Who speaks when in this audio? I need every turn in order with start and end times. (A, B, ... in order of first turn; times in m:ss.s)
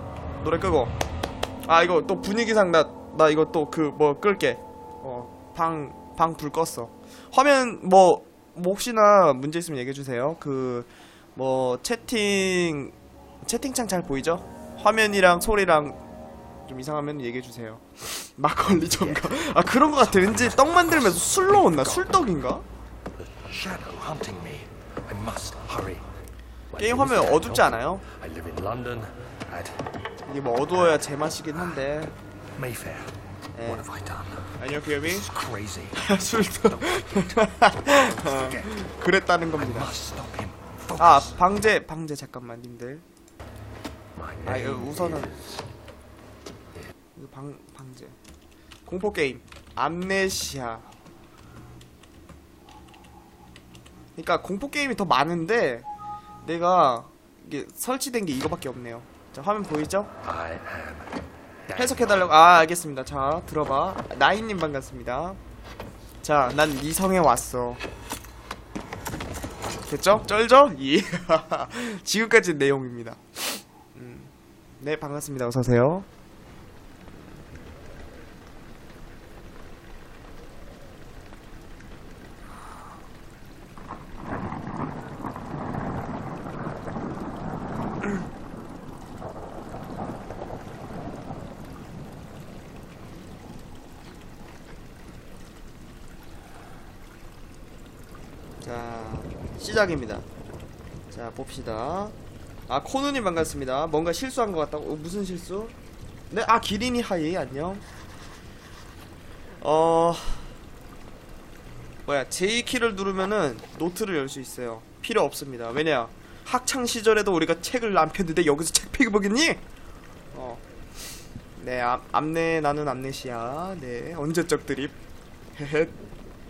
0:00.4-0:00.9 A
0:01.7-0:16.0 A
0:16.7-0:22.6 A
0:18.8-0:19.3 B
0:20.2-0:22.0 B
0:23.2-0:26.1 B
0:26.8-0:28.0 A
0:26.8-0:29.8 B
0:30.3-0:32.1 A
0:32.6-0:34.5 B
0:33.5-0:33.9 A
0:34.6-0:35.3 A
0:35.1-0:36.1 B
0:35.9-0:40.0 A
0:36.6-0:37.4 B
0:38.0-0:38.8 B
0:39.6-0:41.4 B
0:41.0-0:43.0 A
0:44.2-0:45.5 B
0:44.4-0:45.4 A
0:47.2-0:48.2 A
0:48.9-0:50.9 A
0:54.2-0:55.9 A
0:56.4-1:00.1 A
1:00.2-1:01.1 B
1:01.7-1:02.2 B
1:01.7-1:05.4 A
1:06.2-1:07.8 A
1:09.8-1:16.1 A
1:38.6-1:40.3 A
1:41.1-1:42.2 A
1:42.7-1:45.7 A
1:46.3-1:47.8 A
1:49.6-1:50.5 A
1:52.1-1:59.6 A
2:00.3-2:00.6 A
2:01.6-2:05.0 A
2:05.6-2:06.0 A